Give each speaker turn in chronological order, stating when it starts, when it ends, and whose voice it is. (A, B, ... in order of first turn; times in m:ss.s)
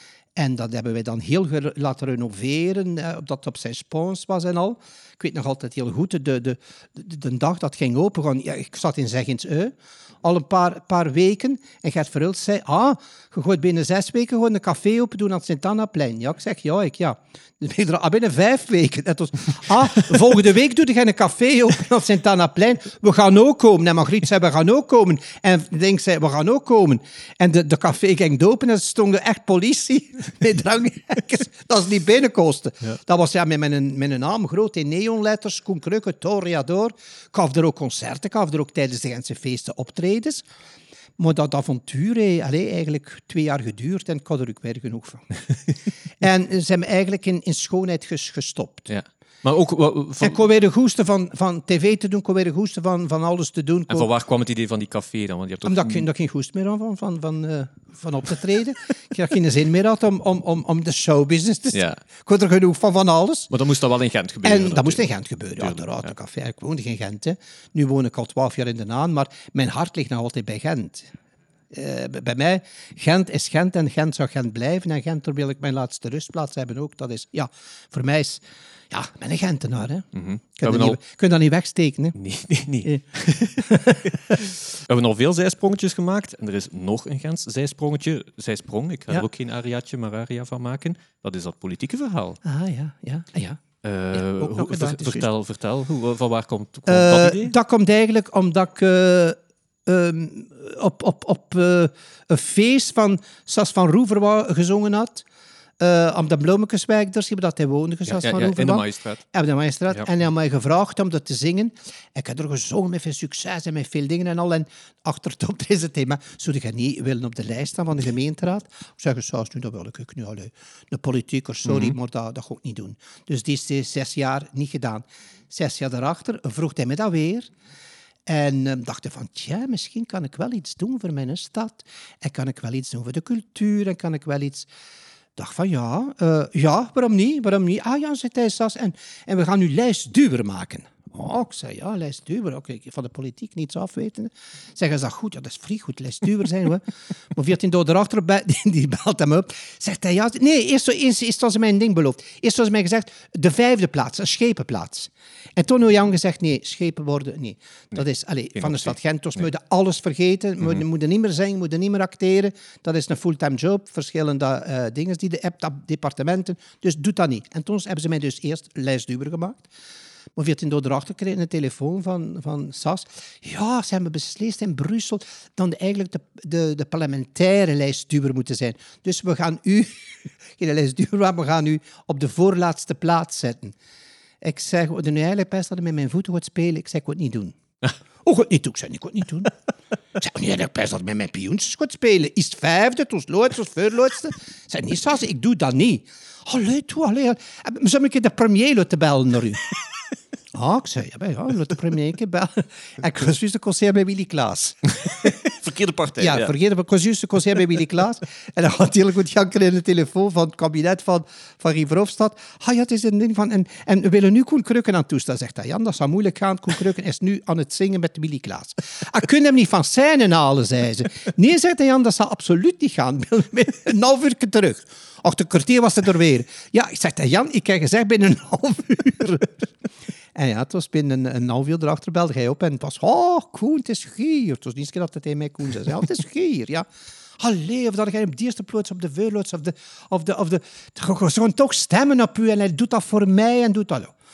0:00.4-0:40.4 A
0:41.2-0:45.3 A
0:46.2-0:48.9 A
0:48.9-0:50.4 B
0:50.2-0:54.1 A
0:53.9-0:56.1 B
0:55.6-1:03.5 A
1:03.5-1:05.1 B
1:04.4-1:11.1 A
1:05.6-1:06.1 B
1:11.7-1:20.1 A
1:20.1-1:21.0 B
1:20.6-1:22.2 A
1:22.2-1:32.4 B
1:23.6-1:24.4 A
1:32.4-1:33.6 A
1:33.8-1:37.5 B
1:34.1-1:35.3 A
1:36.9-1:45.2 A
1:45.8-2:07.5 A
1:48.1-1:49.2 B
2:01.6-2:01.9 B
2:08.3-2:14.7 A
2:15.4-2:49.7 A
2:38.6-2:39.0 B
2:50.4-3:03.7 A
3:04.4-3:07.6 A
3:08.2-3:09.5 A
3:10.2-3:19.7 A
3:20.5-3:25.3 A
3:25.2-3:26.5 B
3:26.2-3:49.6 A
3:50.3-3:56.9 A
3:57.4-4:04.1 A